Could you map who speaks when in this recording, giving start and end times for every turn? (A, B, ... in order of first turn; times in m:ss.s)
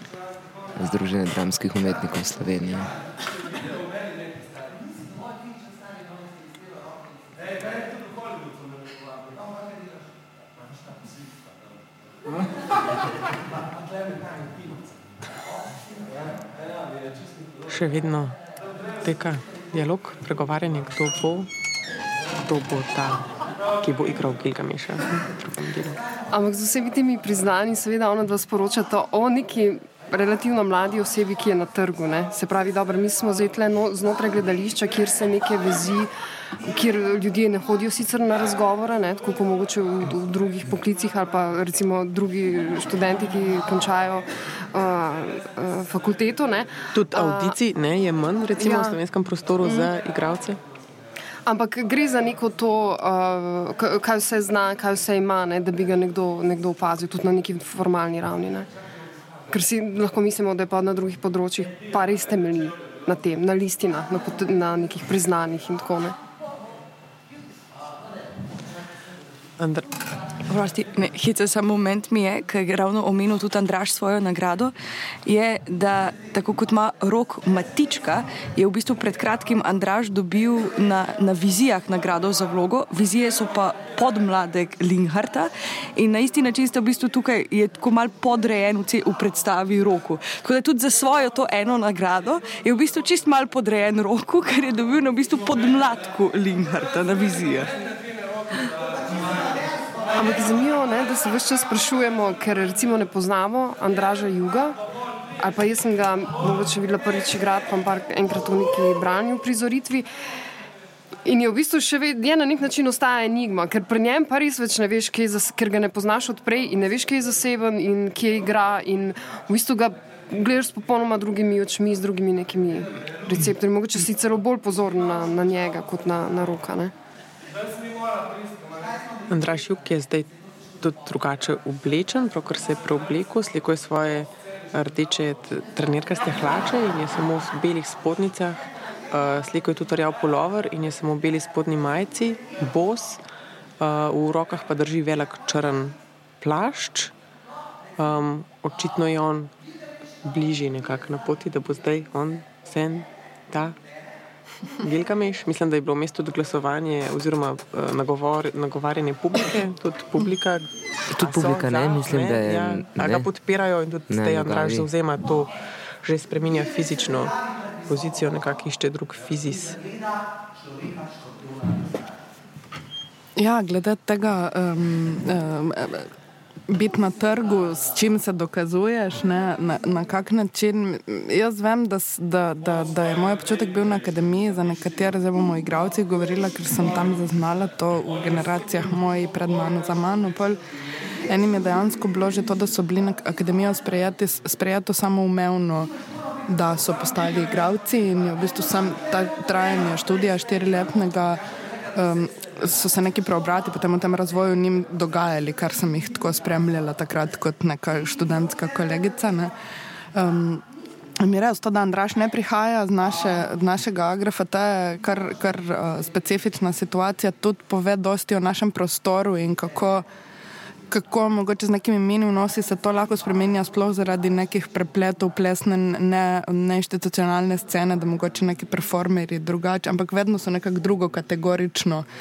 0:00.8-0:02.9 A
0:17.7-0:18.4 B
0:19.0-0:21.5 B
0:22.4-0:26.0 B
0:26.3-0:36.1 C
0:36.6-0:47.6 C
0:46.9-0:50.6 B
0:48.6-0:49.0 C
0:49.6-0:49.9 C
0:51.4-0:58.7 C
0:59.5-1:06.2 C
1:09.6-1:09.9 B
1:10.4-1:37.8 D
1:40.1-1:44.8 C
1:45.4-1:50.1 C
1:51.2-2:06.9 C
2:09.3-2:23.2 B
2:23.8-2:27.1 B
2:28.0-2:29.5 B
2:30.2-2:33.8 B
2:34.8-2:49.8 B
2:41.1-2:43.3 A
2:44.1-2:44.9 A
2:53.4-2:56.1 E
2:56.7-3:10.6 E
3:11.3-3:15.9 E
3:16.5-3:21.4 E
3:21.9-3:29.5 E
3:30.1-3:30.6 E
3:31.2-3:40.0 E
3:40.9-3:52.1 E